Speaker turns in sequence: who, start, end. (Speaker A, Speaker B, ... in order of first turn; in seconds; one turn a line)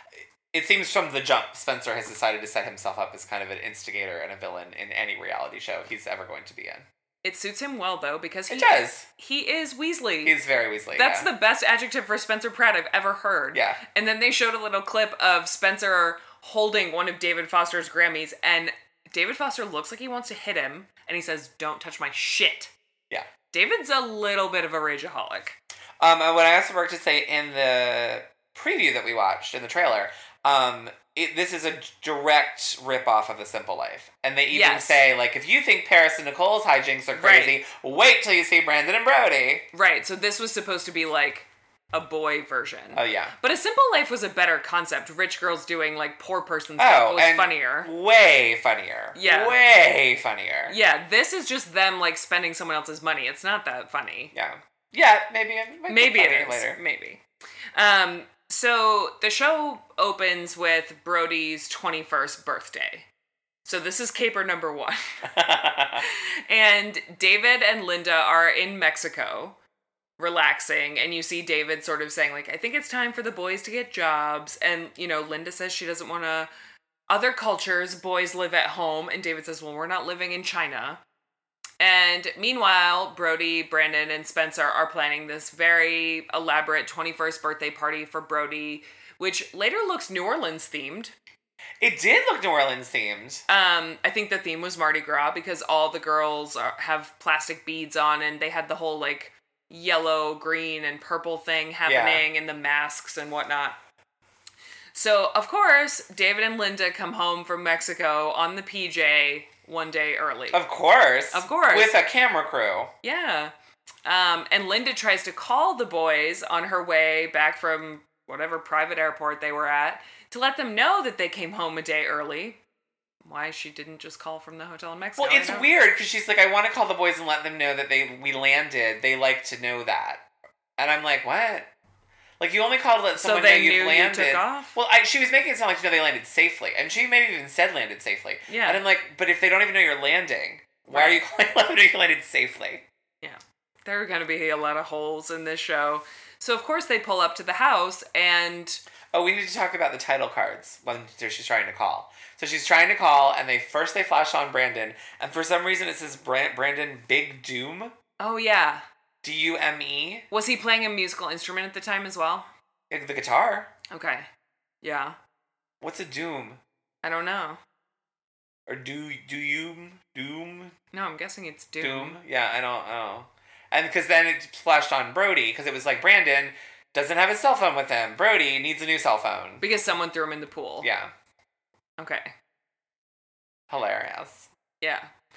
Speaker A: 0.5-6.8
Speaker B: 7.2-10.4
Speaker A: 8.5-9.1
Speaker A: 10.2-11.3
Speaker B: 10.9-22.7
Speaker A: 13.5-13.8
Speaker B: 23.5-25.6
Speaker A: 26.0-39.7
Speaker B: 34.5-35.0
Speaker B: 37.1-37.6
Speaker B: 39.7-47.9
Speaker A: 42.9-43.4
Speaker A: 46.8-50.8
Speaker B: 49.1-49.6
Speaker B: 50.7-54.3
Speaker A: 54.3-56.8
Speaker B: 55.9-57.2
Speaker B: 57.8-63.1
Speaker B: 63.6-65.2
Speaker A: 65.3-66.0
Speaker B: 66.0-69.6
Speaker B: 70.2-76.5
Speaker B: 77.1-81.0
Speaker B: 81.8-91.1
Speaker A: 91.8-93.4
Speaker B: 93.5-103.8
Speaker A: 101.8-102.2
Speaker B: 104.9-110.6
Speaker A: 110.5-112.9
Speaker B: 111.3-112.0
Speaker B: 113.0-113.5
Speaker B: 114.0-122.6
Speaker B: 123.2-125.7
Speaker A: 125.2-130.2
Speaker A: 130.8-131.7
Speaker A: 132.4-142.8
Speaker B: 133.2-134.7
Speaker B: 138.5-138.8
Speaker B: 140.9-141.2
Speaker B: 143.2-148.8
Speaker A: 149.1-157.9
Speaker B: 158.2-158.8
Speaker A: 159.2-160.2
Speaker B: 160.3-162.5
Speaker A: 162.9-163.7
Speaker B: 163.9-164.3
Speaker B: 164.8-165.2
Speaker A: 165.8-166.6
Speaker B: 167.0-167.6
Speaker A: 168.7-170.7
Speaker B: 170.9-172.2
Speaker A: 171.8-179.6
Speaker B: 179.6-180.9
Speaker A: 180.8-181.1
Speaker B: 182.0-182.3
Speaker A: 183.7-184.5
Speaker B: 184.8-185.1